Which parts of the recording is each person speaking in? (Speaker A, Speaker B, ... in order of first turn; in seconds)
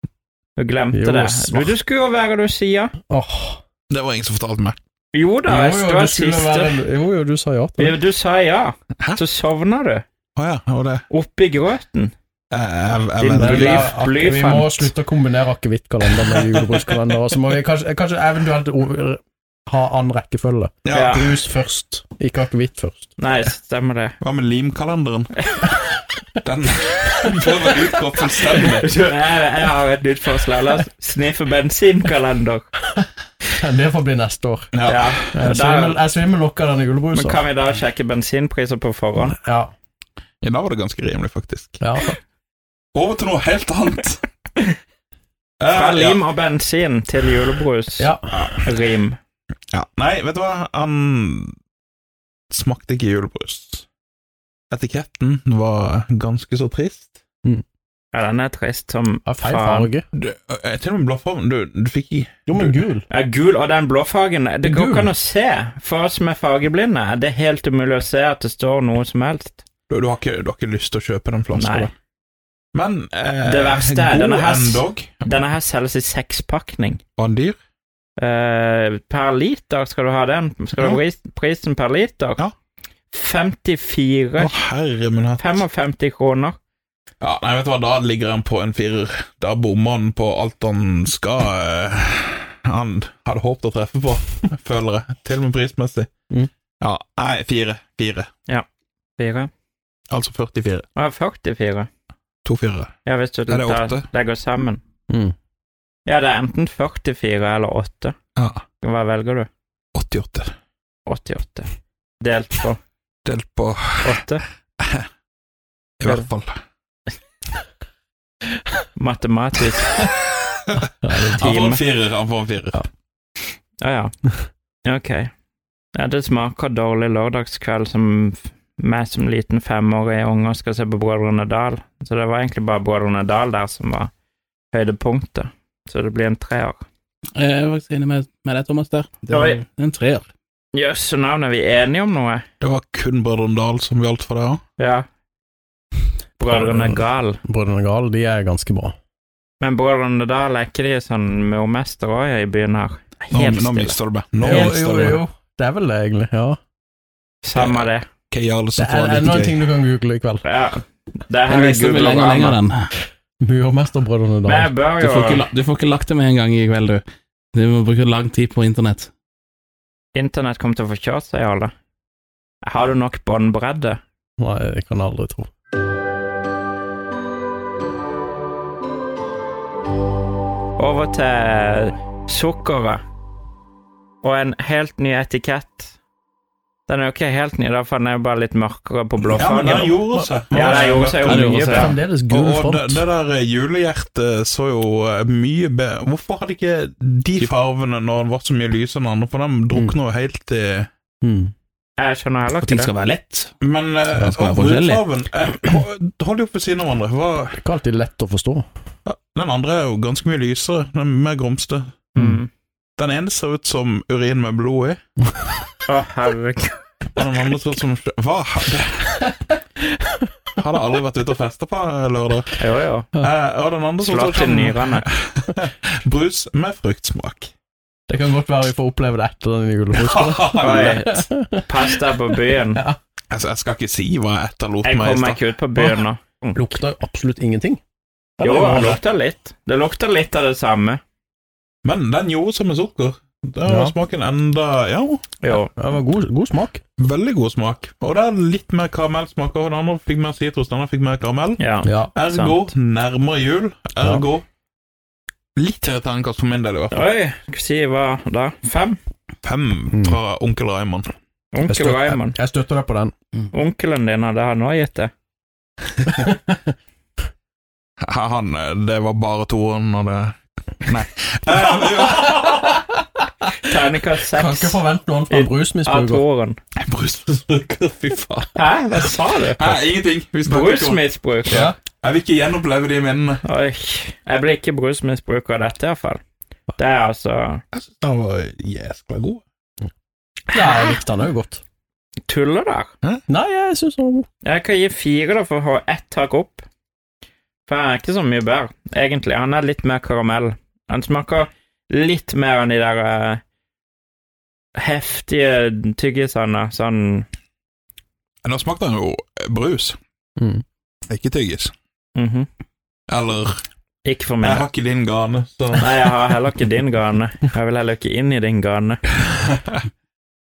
Speaker A: 0.6-2.9, 5.1-6.8, 7.8-10.0, 11.1-12.1, 13.2-14.9, 20.9-21.3, 23.2-24.2, 28.6-32.6, 34.9-36.0, 37.1-39.4, 45.7-49.2, 58.1-59.9, 63.1-69.6, 71.5-71.9, 73.5-77.0, 78.2-82.4, 83.1-84.5, 85.4-86.6, 99.2-99.5, 101.0-101.9, 103.0-104.8, 106.0-108.1, 108.8-109.5, 111.0-111.7, 112.2-112.8, 114.0-114.4, 119.0-120.0, 121.4-121.8, 123.8-124.1, 124.8-125.3, 125.9-134.1, 134.7-136.8, 139.3-139.6, 140.7-142.4, 144.8-145.1, 146.4-147.4, 149.6-153.9, 157.4-158.1, 160.4-162.6, 164.4-165.5, 170.1-171.7, 172.6-174.0, 180.8-183.0, 184.2-185.9, 186.9-190.0, 190.5-191.9, 202.0-202.9, 212.1-212.5, 215.8-216.7, 222.6-223.1, 224.0-225.1, 230.6-232.8, 234.8-236.8, 238.4-241.0, 245.4-245.7, 251.6-252.6, 256.9-259.0, 261.5-262.4, 263.5-265.1, 273.6-276.6, 278.5-279.7, 280.4-281.7, 283.4-286.2, 286.8-287.6, 290.5-291.0, 292.3-292.9, 294.4-296.6, 297.6-303.4, 304.8-307.3, 312.1-312.5, 314.0-314.7, 315.8-319.0
Speaker B: 0.9-1.7, 3.1-3.6, 5.5-8.0, 13.2-23.1, 33.6-34.7, 35.3-37.4, 39.2-39.7, 41.8-42.1, 48.0-48.5, 59.2-60.1, 62.5-63.0, 64.6-65.1, 121.0-121.4, 146.5-148.9, 154.4-156.6, 158.8-160.4, 163.4-164.7, 174.4-175.5, 190.2-193.0, 201.2-201.5, 207.6-208.6, 228.1-233.0, 236.5-237.8, 238.4-239.0, 243.7-243.9, 245.7-246.8, 251.8-252.1, 254.0-254.2, 261.7-263.1, 266.2-266.6, 274.3-276.2, 281.5-281.7, 290.5-291.6, 293.3-294.2, 310.4-310.6
Speaker C: 3.9-4.8, 10.3-11.0, 12.5-13.9, 16.4-16.8, 20.9-21.3, 24.2-25.3, 26.4-28.9, 34.7-35.2, 40.4-41.8, 42.9-44.2, 45.6-46.2, 49.7-51.5, 52.5-53.8, 54.7-57.1, 60.1-62.8, 69.9-71.8, 72.7-75.3, 77.2-77.6, 84.4-85.5, 87.2-96.1, 96.8-98.3, 100.1-100.8, 102.4-102.9, 103.5-104.1, 108.3-108.6, 109.9-110.5, 113.2-114.2, 116.0-116.6, 121.3-122.8, 142.6-144.6, 153.3-155.2, 157.5-159.6, 189.3-200.9, 203.6-207.6, 209.1-211.9, 213.0-215.0, 217.2-219.3, 220.6-222.5, 223.1-227.5, 230.0-231.0, 233.3-235.4, 241.8-245.2, 247.0-251.6, 252.1-254.4, 255.6-257.0, 259.4-261.1, 268.0-272.9, 276.8-278.5, 279.6-283.4, 287.7-289.4, 308.4-310.0, 311.1-311.7, 313.1-313.6, 314.4-316.1
Speaker D: 137.3-140.3, 161.5-162.9, 165.0-167.0, 167.5-169.1, 202.6-203.5, 204.2-205.1